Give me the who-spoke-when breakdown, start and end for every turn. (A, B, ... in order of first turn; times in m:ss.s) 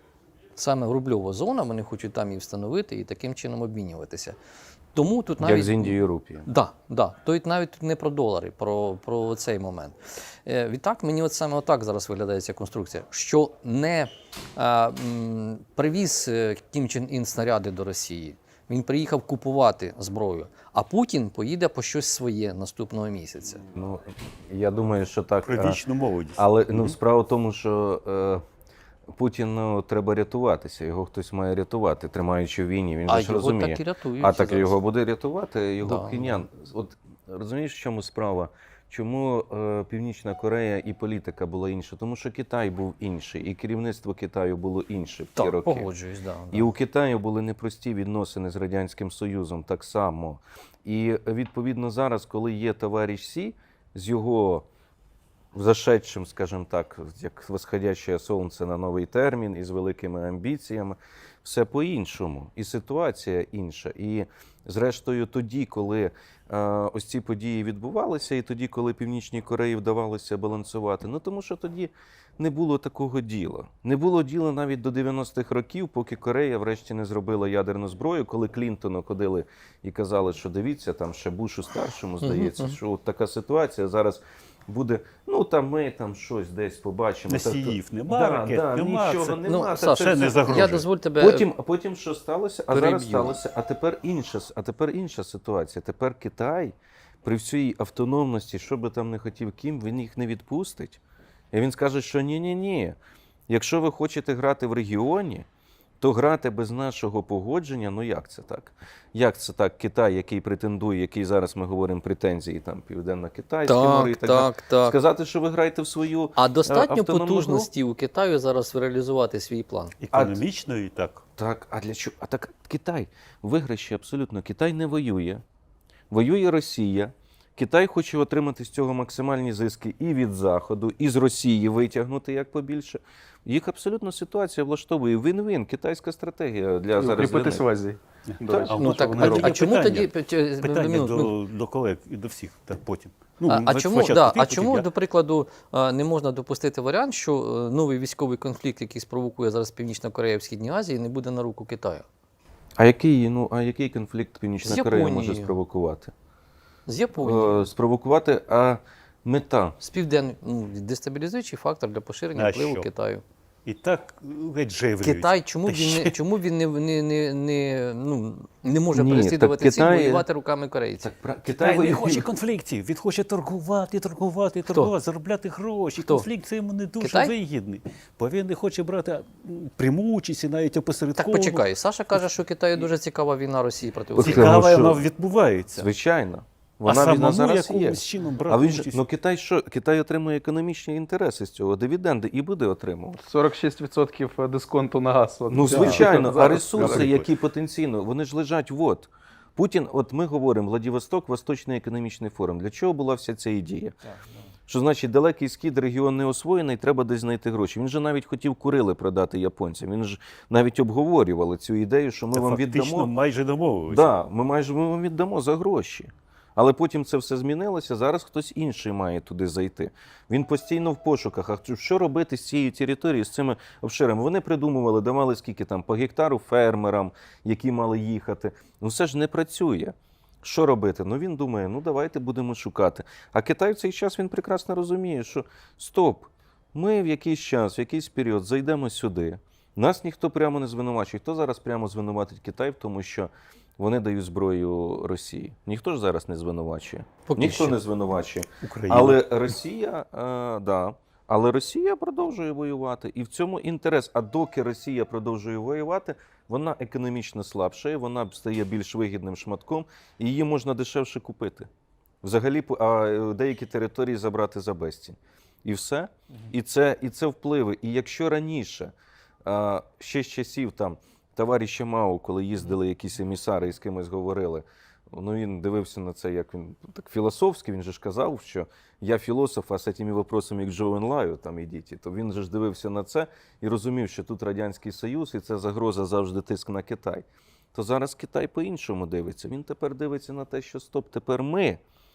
0:00.6-0:04.4 A
0:04.9-0:23.6 A
0:05.4-0:06.5 B
0:23.7-0:25.8 B
0:25.4-0:26.9 C
0:26.4-0:28.4 B
0:29.1-0:45.9 B
0:33.1-0:34.8 A
0:35.8-0:36.4 A
0:45.4-0:46.7 A
0:46.5-0:54.6 B
0:55.5-1:41.0 B
1:22.2-1:22.8 A
1:27.3-1:30.9 C
1:29.4-1:31.5 A
1:32.7-1:33.4 A
1:41.5-1:43.0 B
1:43.5-1:45.4 B
1:46.0-1:57.7 B
1:53.6-1:55.0 A
1:56.4-2:00.0 A
2:00.0-2:01.2 C
2:00.1-2:00.4 B
2:01.4-2:05.4 B
2:06.1-2:17.6 B
2:17.0-2:19.5 D
2:18.5-2:18.8 B
2:18.5-2:24.9 C
2:18.7-2:21.3 A
2:23.4-2:32.0 A
2:32.8-2:36.1 B
2:34.6-2:35.6 A
2:36.9-2:37.7 A
2:37.2-2:39.8 B
2:39.8-2:43.2 A
2:42.3-2:42.9 C
2:43.6-2:46.2 C
2:45.0-2:51.1 A
2:48.9-2:50.2 B
2:51.0-2:52.3 B
2:51.5-3:01.7 C
2:56.0-2:56.3 A
2:57.0-2:57.3 A
3:01.2-3:04.6 A
3:04.1-3:05.0 B
3:04.2-3:05.9 C
3:05.7-3:13.2 B
3:06.8-3:09.0 C
3:13.2-3:17.0 D
3:15.5-3:23.9 B
3:15.7-3:16.1 C
3:16.7-3:17.3 C
3:24.7-3:33.1 B
3:32.3-3:34.1 C
3:33.9-4:21.7 B
4:07.3-4:07.8 A
4:08.6-4:09.4 C
4:22.2-4:28.9 B
4:29.4-4:51.8 B